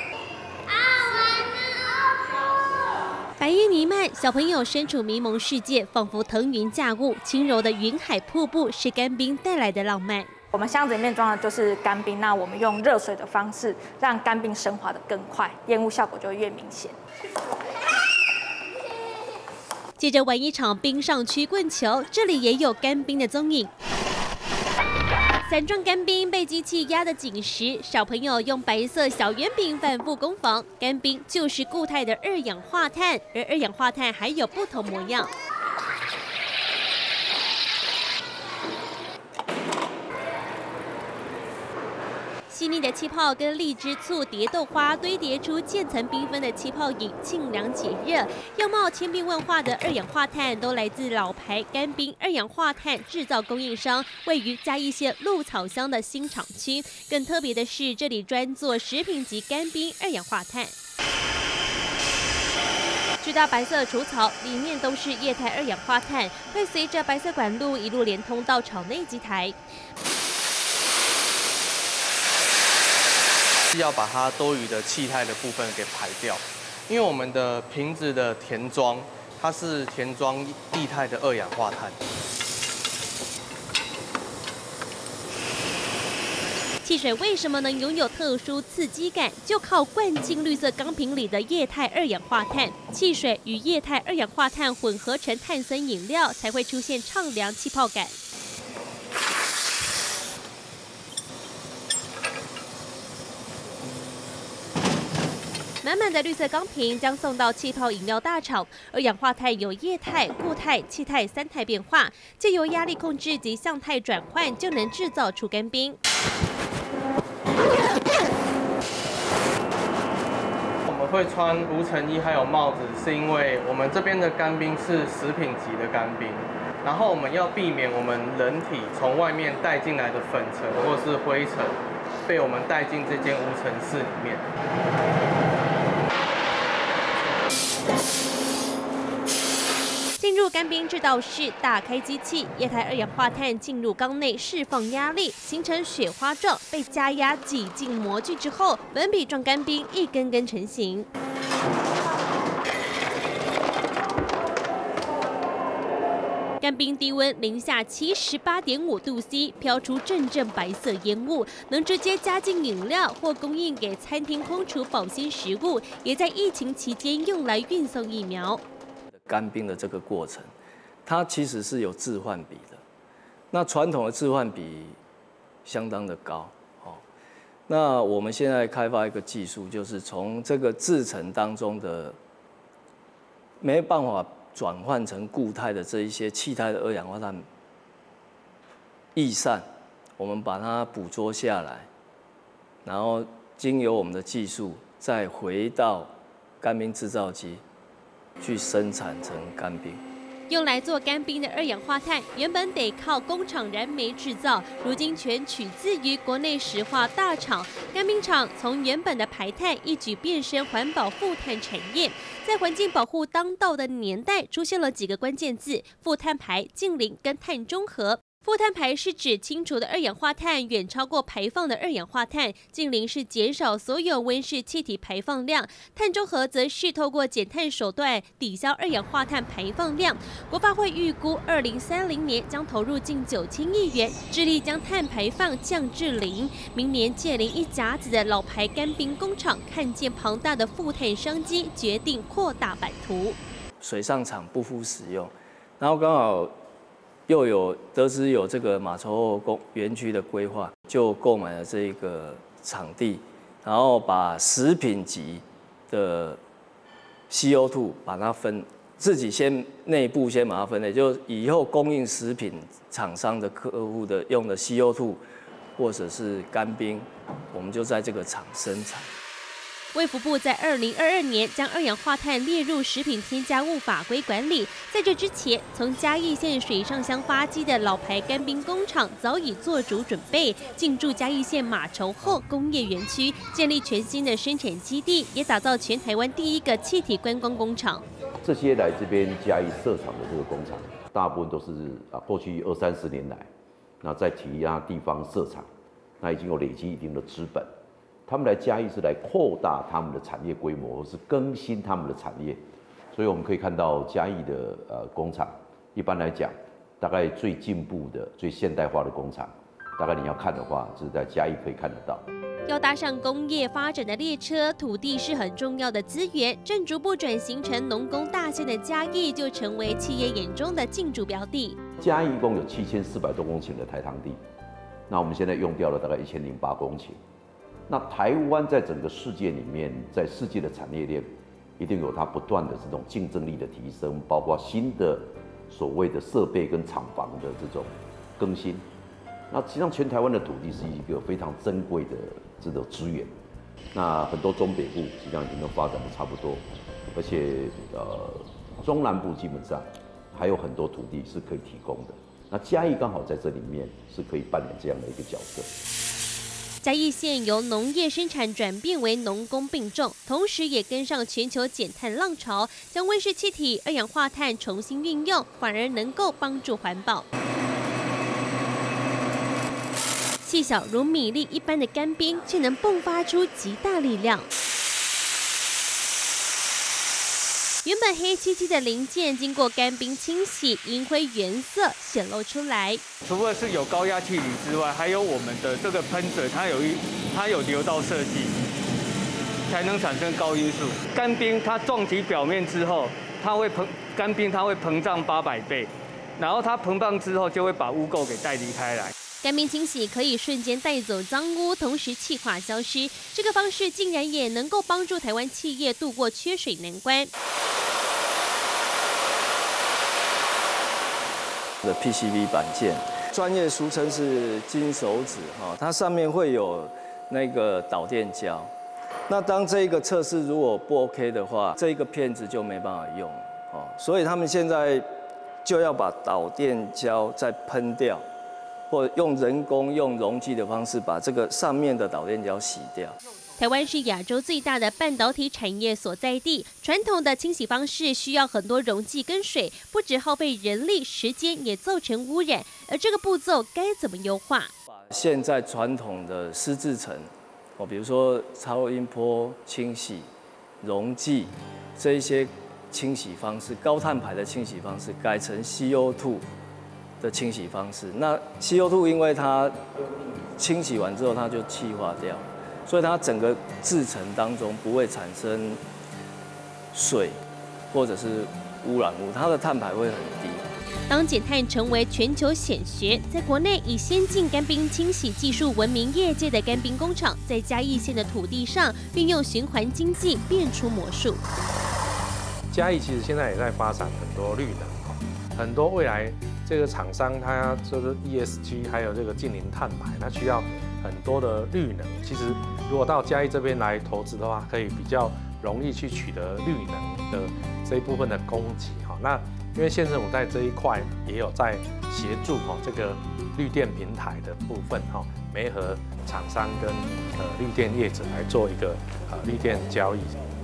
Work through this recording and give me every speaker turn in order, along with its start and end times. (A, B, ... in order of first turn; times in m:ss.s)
0:03.4-0:10.3 A
0:10.5-0:17.0 B
0:20.0-0:23.7 A
0:25.4-0:35.3 A
0:42.5-1:00.7 A
1:03.2-1:09.6 A
1:13.7-1:22.0 C
1:26.8-1:38.2 A
1:45.8-1:56.0 A
2:00.9-2:14.4 C
2:20.2-2:31.1 A
2:36.6-2:48.6 A
2:49.2-2:50.5 D
2:51.1-2:52.8 D
2:53.5-2:55.0 D
2:55.6-2:57.0 D
2:57.7-3:02.2 D
3:03.6-3:07.5 D
3:09.2-3:09.6 D
3:10.2-3:11.9 D
3:12.8-3:17.6 D
3:18.4-3:20.0 D
3:20.5-4:03.4 A
4:03.8-4:06.5 D
4:07.3-4:16.4 D
4:17.3-4:25.2 D
4:25.8-4:29.1 D
4:29.9-4:48.0 A
4:48.4-4:53.5 E
4:54.0-4:55.7 E
4:56.2-4:57.7 E
4:58.3-5:02.6 E
5:03.1-5:12.2 E
5:12.7-5:21.8 A
5:22.0-5:24.4 E
5:25.1-5:27.2 E
5:27.9-5:31.3 E
5:31.8-5:38.8 E
5:39.5-5:43.3 E
5:43.9-5:55.7 E
5:56.8-6:07.2 A
6:10.4-6:14.5 A
6:17.8-6:23.0 A
6:23.4-6:25.3 F
6:25.9-6:28.1 F
6:29.9-6:30.6 F
6:31.4-6:35.5 F
6:37.0-6:38.2 F
6:39.4-6:47.3 A
6:51.8-6:58.7 D
6:59.3-7:05.0 D
7:05.6-7:08.2 D
7:08.9-7:13.2 D
7:13.6-7:24.7 A
7:24.9-7:30.3 D
7:30.8-7:36.5 D
7:37.2-7:45.8 D
7:46.9-7:47.4 D
7:47.9-7:50.7 D
7:51.1-8:01.4 A
8:02.7-8:30.4 G